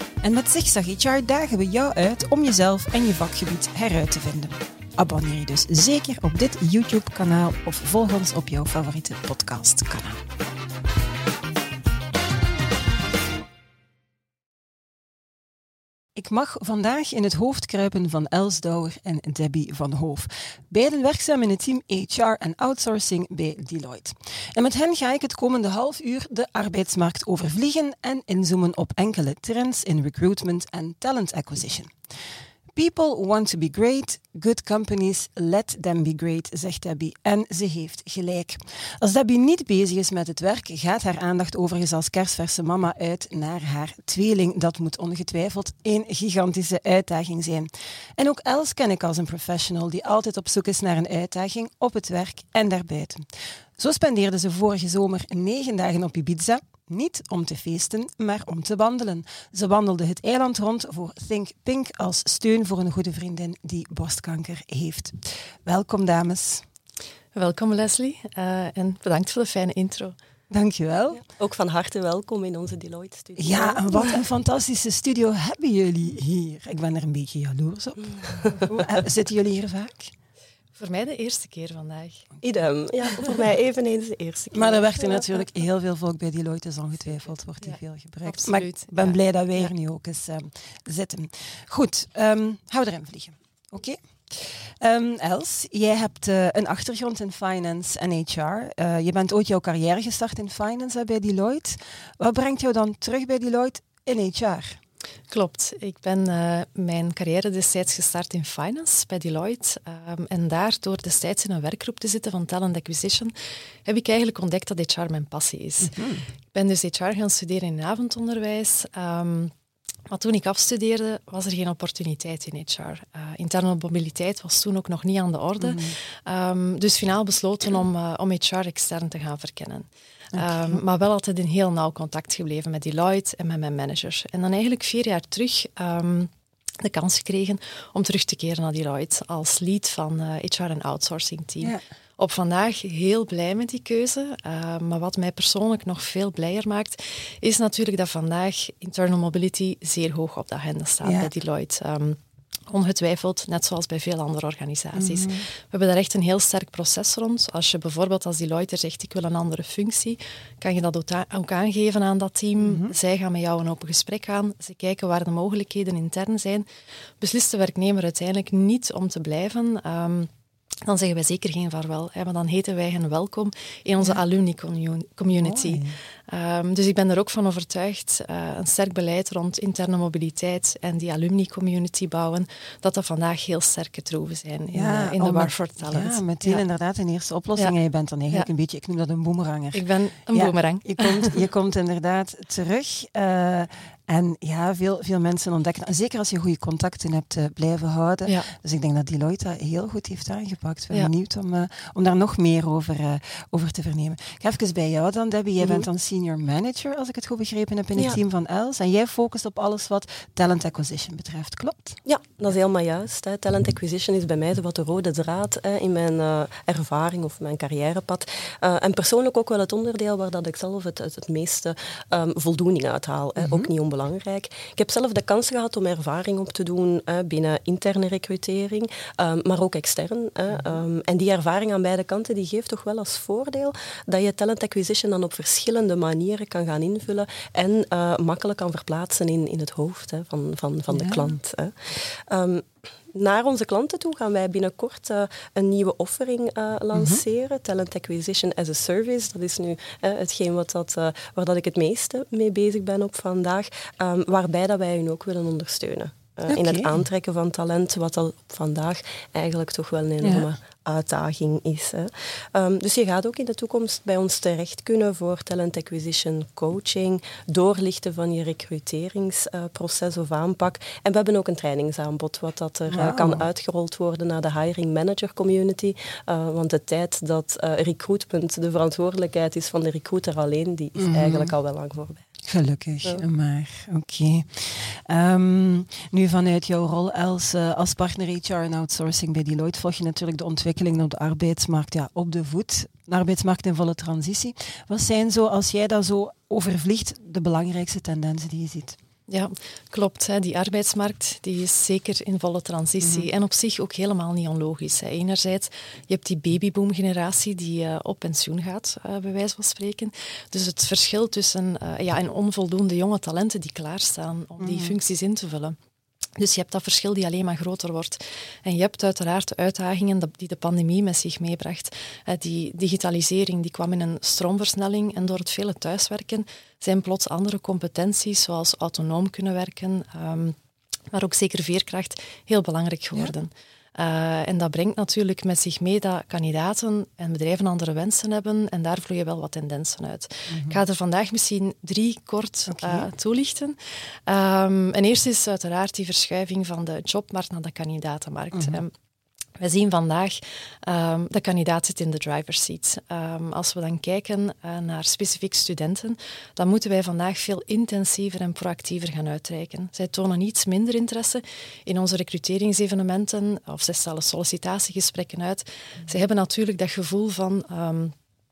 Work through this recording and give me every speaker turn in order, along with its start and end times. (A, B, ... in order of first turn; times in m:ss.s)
0:00.2-0:10.3 A
0:16.1-0:32.0 A
0:32.7-1:06.6 A
1:07.3-1:10.2 B
1:10.5-1:11.2 A
1:11.2-1:14.2 C
1:13.4-1:20.1 A
1:20.8-1:22.3 B
1:22.4-1:25.3 C
1:24.5-1:44.8 A
1:27.6-1:29.2 B
1:45.3-1:53.3 B
1:53.8-1:56.0 B
1:55.8-1:56.2 A
1:56.5-1:59.5 B
2:00.1-2:32.2 B
2:05.6-2:06.0 A
2:10.4-2:10.8 A
2:31.0-2:31.3 A
2:32.7-2:46.7 B
2:35.0-2:35.4 A
2:42.6-2:42.9 A
2:47.2-2:50.3 B
2:50.9-3:06.6 B
2:55.3-2:56.0 A
3:04.7-3:32.0 A
3:09.7-3:11.4 B
3:25.6-3:25.9 C
3:32.0-4:42.2 C
3:43.4-3:43.7 A
4:00.9-4:01.4 A
4:06.9-4:07.2 A
4:16.5-4:17.0 A
4:20.2-4:20.5 A
4:32.9-4:33.5 A
4:41.0-4:41.5 A
4:42.4-4:59.0 A
4:59.3-5:15.8 B
5:14.6-5:14.9 A
5:16.4-5:30.6 B
5:31.1-5:48.9 B
5:40.5-5:40.8 A
5:42.7-5:43.1 A
5:48.5-5:48.8 A
5:49.6-6:08.2 B